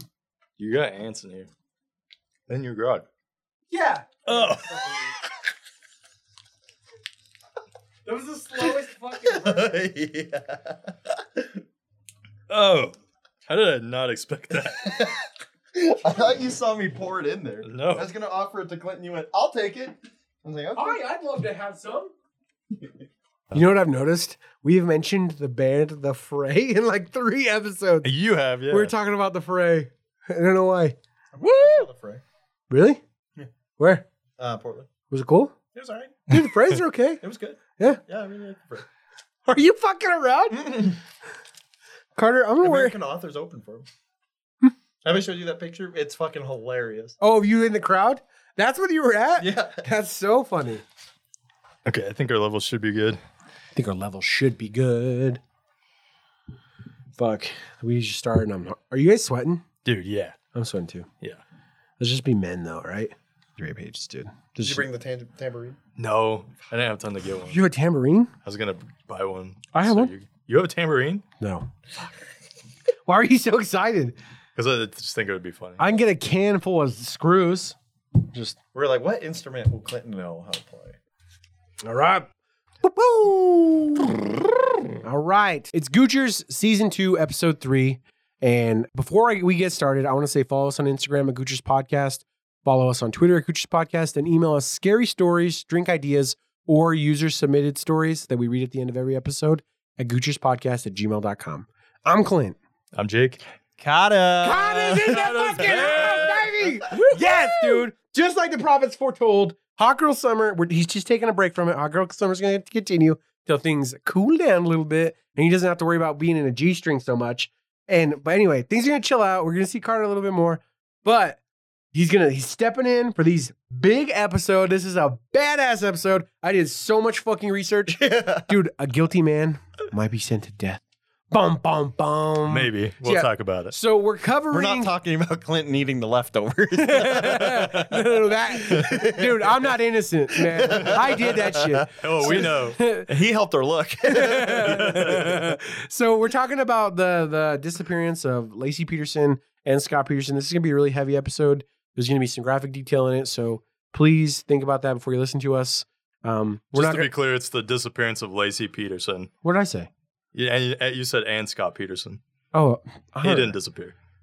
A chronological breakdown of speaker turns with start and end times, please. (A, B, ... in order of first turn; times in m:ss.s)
0:00.6-0:01.5 A
0:02.5-0:03.1 A
0:03.7-0:05.1 B
0:04.3-0:05.1 A
0:08.1-0:09.8 B
0:09.2-0:11.6 C
0:12.5-0:12.9 A
0:13.5-0:15.1 A
0:14.8-0:21.0 C
0:17.6-0:18.1 A
0:20.8-0:22.1 B
0:23.5-0:28.1 B
0:28.0-0:28.9 A
0:28.7-0:31.9 B
0:31.3-0:32.2 C
0:32.7-0:33.0 B
0:33.8-0:34.0 B
0:34.4-0:34.9 C
0:35.1-0:35.6 B
0:35.7-0:36.4 C
0:36.3-0:37.2 B
0:37.2-0:38.9 C
0:39.5-0:41.0 B
0:40.5-0:41.0 C
0:42.2-0:42.9 B
0:42.6-0:43.9 C
0:45.0-0:47.2 C
0:47.2-0:50.8 B
0:49.4-0:49.9 C
0:51.8-0:53.2 A
0:53.8-0:55.4 B
0:57.2-0:59.6 B
0:59.8-1:00.4 A
1:00.5-1:01.1 B
1:02.0-1:04.9 B
1:04.6-1:05.8 C
1:06.0-1:07.6 A
1:07.5-1:08.3 B
1:08.4-1:11.2 A
1:09.7-1:10.1 B
1:11.4-1:11.7 B
1:13.1-1:14.2 B
1:14.6-1:15.8 A
1:15.8-1:17.8 B
1:18.3-1:18.6 B
1:18.7-1:21.0 C
1:21.8-1:22.3 B
1:22.8-1:24.4 B
1:24.9-1:42.6 B
1:43.0-1:43.4 A
1:43.8-1:46.6 C
1:44.4-2:01.4 B
1:45.1-1:46.4 A
1:47.2-1:47.8 C
2:01.9-2:14.9 B
2:07.9-2:08.5 C
2:12.5-2:13.8 A
2:14.5-2:19.7 C
2:16.8-2:23.1 B
2:20.4-2:22.5 C
2:22.0-2:22.8 A
2:23.1-2:25.4 C
2:24.0-2:37.1 B
2:36.7-2:39.3 A
2:39.4-2:39.9 B
2:40.3-2:42.2 A
2:42.5-2:43.6 B
2:43.2-2:43.9 A